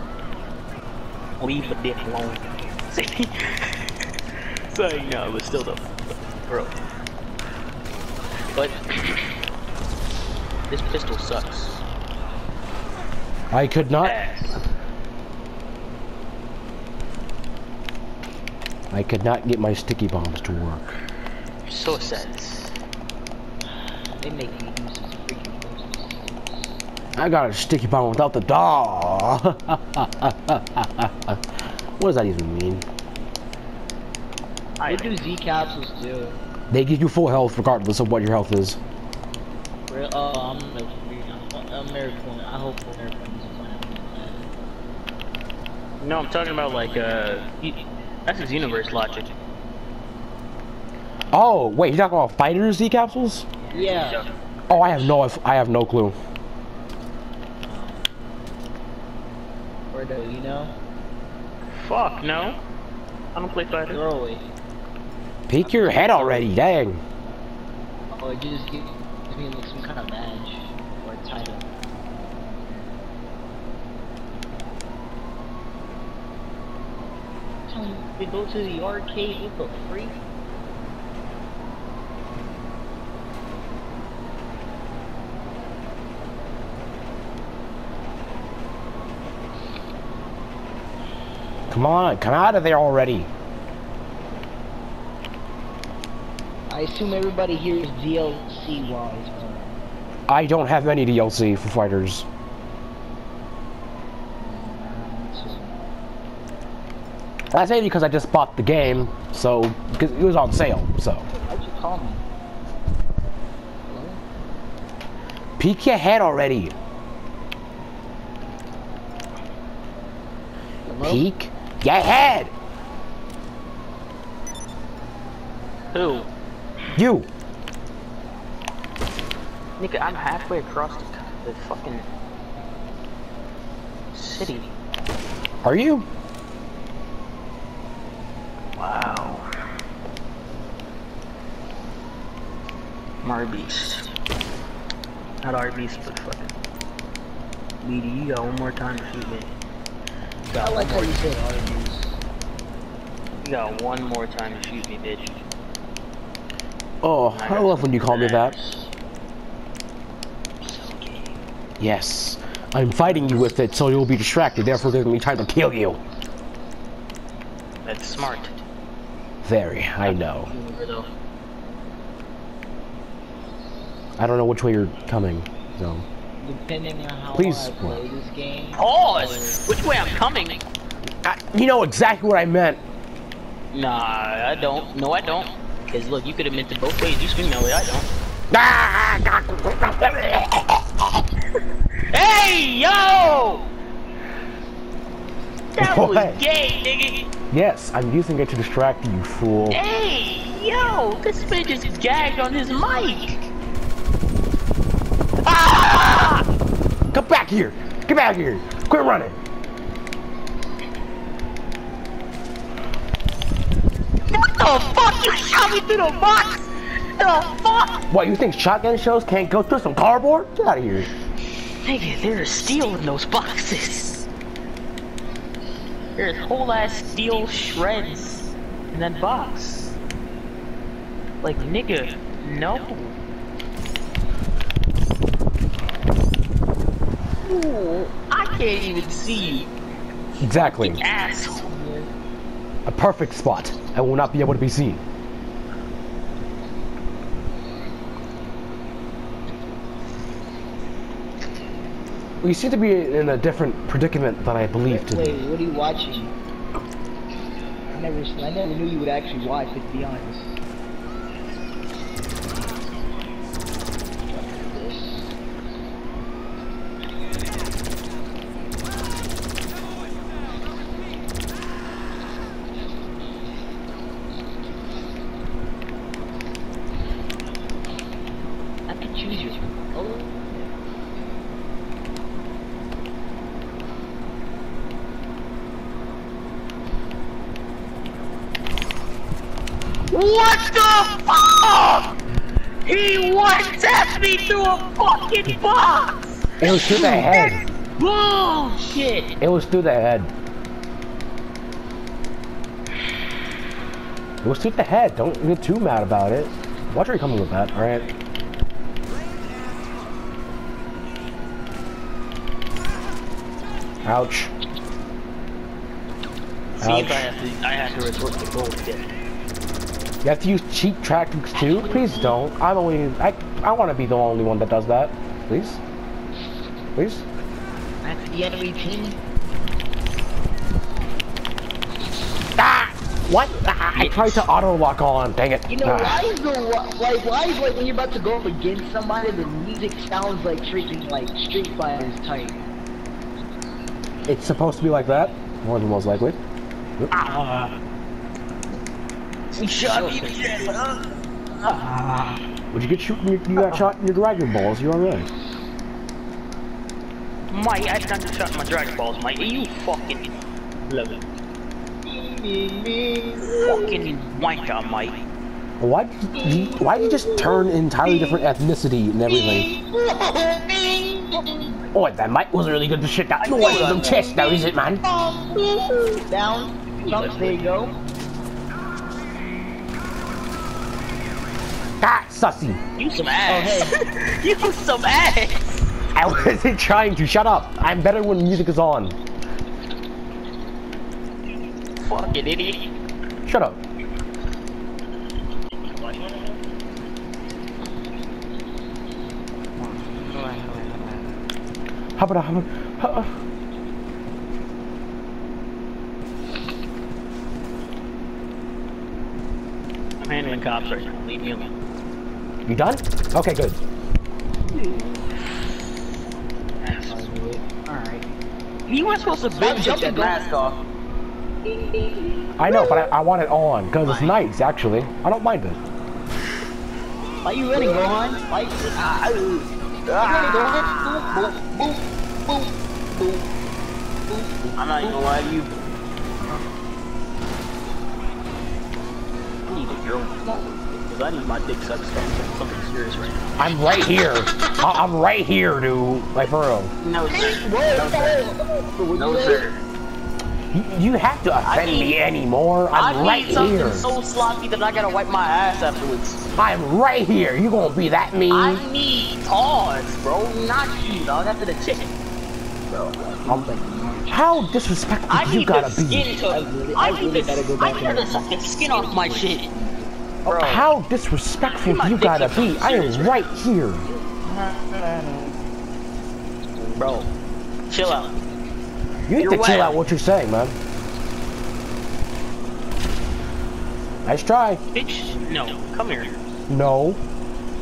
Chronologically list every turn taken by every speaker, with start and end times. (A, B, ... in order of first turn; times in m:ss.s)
0:01.4-0:03.8 A
0:04.7-0:05.9 A
0:06.5-0:06.8 A
0:08.5-0:09.3 A
0:10.7-0:11.8 A
0:13.5-0:14.1 B
0:14.0-0:14.6 A
0:18.9-0:21.0 B
0:21.7-0:22.7 A
0:24.2-0:26.6 C
0:27.1-0:32.8 B
0:34.8-0:35.2 A
0:34.8-0:36.4 C
0:36.7-0:38.8 B
0:39.9-0:44.4 C
0:46.0-0:49.3 A
0:51.3-0:53.4 B
0:53.7-0:54.2 C
0:53.8-0:54.3 A
0:54.7-0:56.2 B
0:59.9-1:00.7 C
1:01.8-1:02.6 A
1:03.3-1:04.0 A
1:03.8-1:04.4 C
1:05.5-1:07.0 B
1:05.6-1:06.5 C
1:08.1-1:11.7 C
1:12.4-1:12.8 C
1:17.7-1:20.2 C
1:31.7-1:33.3 B
1:36.7-1:39.7 C
1:40.3-1:42.2 B
1:44.4-1:45.8 C
1:47.5-1:51.3 B
1:51.5-1:52.2 C
1:53.8-1:54.2 C
1:55.6-1:56.7 B
2:00.9-2:01.2 C
2:01.0-2:02.5 B
2:05.9-2:06.3 A
2:06.9-2:07.3 B
2:09.8-2:12.0 A
2:14.1-2:14.7 A
2:15.6-2:16.1 B
2:18.8-2:19.5 A
2:23.2-2:24.1 A
2:25.4-2:26.5 A
2:27.8-2:29.5 A
2:30.5-2:31.2 A
2:30.5-2:32.1 C
2:33.4-2:35.4 A
2:37.0-2:38.5 B
2:37.3-2:38.9 A
2:40.6-2:41.3 A
2:41.8-2:46.0 B
2:47.8-2:48.6 A
2:49.4-2:50.5 B
2:50.0-2:51.1 A
2:54.2-2:56.0 B
2:56.4-2:59.6 C
2:57.3-2:58.0 B
2:58.8-3:00.6 A
3:01.2-3:02.8 B
3:03.7-3:08.1 A
3:08.5-3:11.2 B
3:12.1-3:13.6 A
3:15.7-3:17.3 A
3:15.8-3:16.4 B
3:17.5-3:19.8 B
3:19.7-3:23.5 A
3:25.4-3:26.4 A
3:27.1-3:29.4 B
3:34.3-3:38.1 A
3:38.1-3:41.1 B
3:41.8-3:44.3 A
3:46.2-3:49.9 A
3:51.4-3:53.1 A
3:57.4-3:59.7 A
4:00.4-4:01.0 B
4:00.5-4:01.7 A
4:01.6-4:02.1 C
4:02.8-4:05.0 B
4:12.4-4:15.4 B
4:14.8-4:16.3 C
4:17.9-4:20.6 C
4:24.5-4:25.2 C
4:38.9-4:40.7 C
4:50.1-4:52.1 A
4:52.8-4:59.3 A
4:56.6-4:57.6 B
4:59.4-5:00.3 B
5:04.4-5:08.1 B
5:14.0-5:14.5 B
5:16.8-5:19.1 A
5:16.8-5:17.3 B
5:20.2-5:25.8 B
5:21.6-5:22.3 C
5:27.0-5:27.2 B
5:28.0-5:29.2 C
5:32.6-5:36.2 B
5:35.7-5:42.6 C
5:44.2-5:46.4 B
5:47.1-5:47.7 A
5:49.5-5:51.1 A
5:51.6-5:52.4 A
5:52.7-5:55.3 B
5:53.6-5:53.8 A
5:57.5-6:01.2 A
6:02.0-6:04.0 C
6:03.6-6:05.2 A
6:05.8-6:09.7 B
6:06.3-6:08.4 C
6:09.3-6:11.7 C
6:11.9-6:15.0 B
6:13.4-6:14.3 A
6:15.2-6:15.6 C
6:16.3-6:18.0 C
6:17.1-6:17.6 A
6:22.0-6:22.8 B
6:23.0-6:25.6 A
6:23.4-6:23.9 C
6:26.1-6:29.2 B
6:32.0-6:32.9 A
6:33.4-6:33.8 B
6:39.8-6:41.2 C
6:42.2-6:43.3 B
6:50.2-6:51.7 A
6:52.6-6:53.8 B
6:54.7-6:55.1 C
6:57.0-6:58.2 C
6:58.9-7:00.8 A
6:59.6-7:00.4 C
7:01.6-7:03.1 C
7:02.6-7:05.8 B
7:04.0-7:04.4 A
7:07.4-7:08.5 C
7:08.4-7:11.4 A
7:10.2-7:13.5 C
7:14.3-7:15.2 C
7:14.8-7:15.8 A
7:19.7-7:23.4 A
7:23.6-7:26.9 B
7:27.0-7:28.5 A
7:27.3-7:29.6 C
7:29.2-7:29.8 A
7:30.7-7:34.1 B
7:31.6-7:32.1 A
7:32.9-7:36.5 A
7:36.6-7:38.8 B
7:38.5-7:42.1 A
7:43.2-7:44.4 C
7:44.3-7:46.3 B
7:45.3-7:49.7 A
7:46.5-7:50.1 C
7:50.4-7:50.9 A
7:50.5-7:54.0 B
7:51.7-7:53.4 A
7:54.1-7:55.5 C
7:56.7-7:57.1 C
7:57.0-7:57.3 A
7:57.9-7:58.4 A
7:59.3-8:00.7 B
7:59.3-8:00.0 A
8:04.2-8:04.8 B
8:04.9-8:06.3 A
8:06.7-8:07.2 B